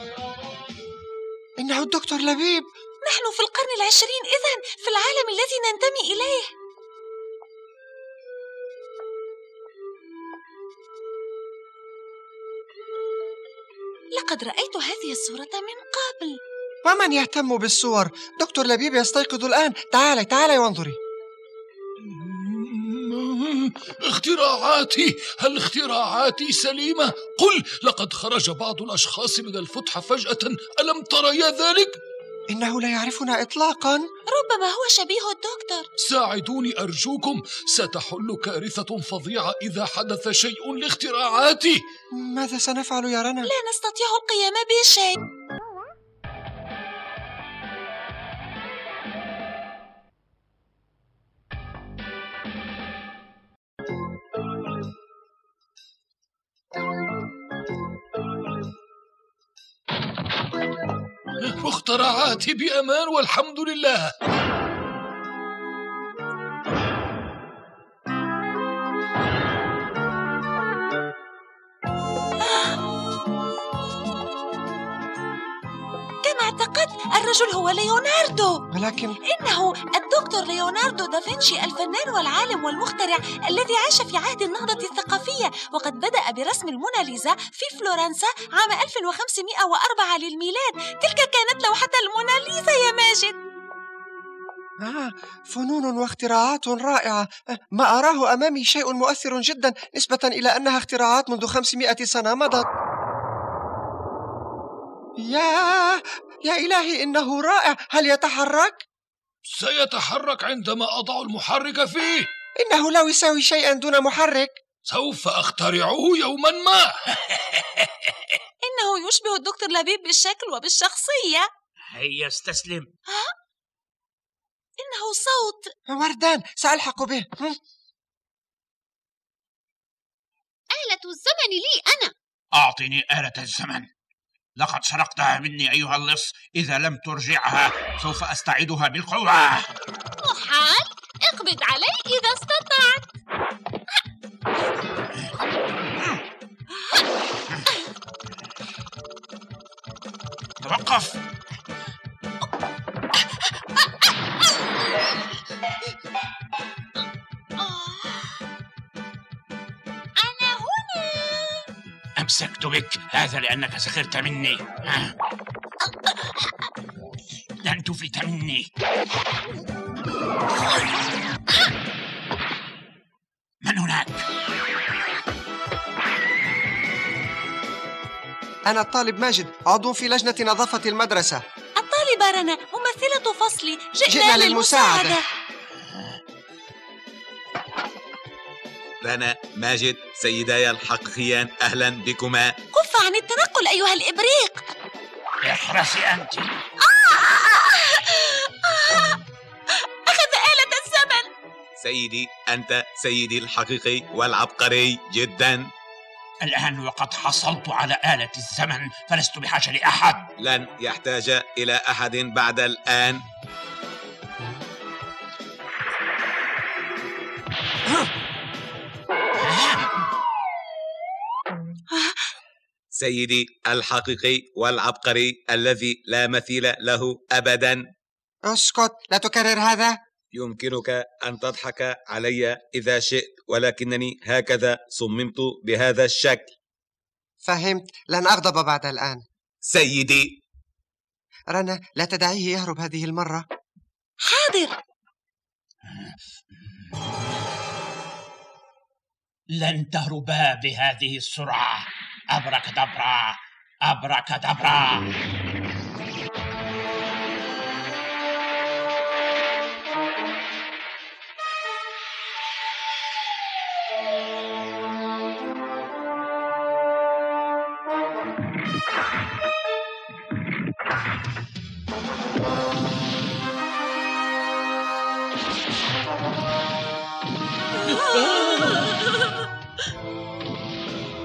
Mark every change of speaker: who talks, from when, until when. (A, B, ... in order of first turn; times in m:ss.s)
0:01.6-0:02.6 A
0:03.0-0:06.5 B
0:14.1-0:16.4 B
0:16.8-0:21.0 A
0:22.0-0:32.0 C
0:32.5-0:34.0 A
0:34.3-0:35.9 B
0:36.0-0:41.8 C
0:42.1-0:43.5 A
0:43.4-0:45.2 B
1:01.4-1:04.2 C
1:12.4-1:12.8 B
1:16.2-1:18.6 B
1:18.7-1:19.2 A
1:19.3-1:33.4 B
1:34.8-1:42.7 A
1:45.2-1:48.8 A
1:49.4-1:52.3 C
1:52.6-1:54.5 A
1:54.9-1:57.0 C
1:57.5-1:57.8 D
1:58.6-2:01.5 B
2:01.9-2:02.9 D
2:04.8-2:05.7 B
2:05.9-2:07.6 A
2:10.7-2:12.1 E
2:12.5-2:13.8 D
2:14.6-2:19.7 D
2:20.2-2:21.3 E
2:30.6-2:31.2 D
2:37.6-2:38.0 B
2:40.2-2:41.4 B
2:42.2-2:45.1 D
2:47.6-2:48.7 D
2:53.6-2:54.2 D
2:58.6-3:01.4 A
3:01.8-3:05.2 B
3:04.1-3:05.2 A
3:09.0-3:12.5 F
3:12.7-3:14.6 B
3:15.4-3:16.5 D
3:16.8-3:19.2 B
3:19.7-3:21.3 B
3:21.8-3:25.6 F
3:26.4-3:30.3 D
3:30.4-3:33.2 F
3:39.4-3:39.9 D
3:41.9-3:42.2 B
3:42.9-3:47.8 F
3:48.4-3:50.0 A
3:50.3-3:56.5 F
3:57.4-3:59.2 A
3:59.6-4:00.3 F
4:01.5-4:03.4 A
4:04.2-4:04.8 B
4:09.5-4:15.1 D
4:37.8-4:39.4 B
4:38.0-4:38.8 C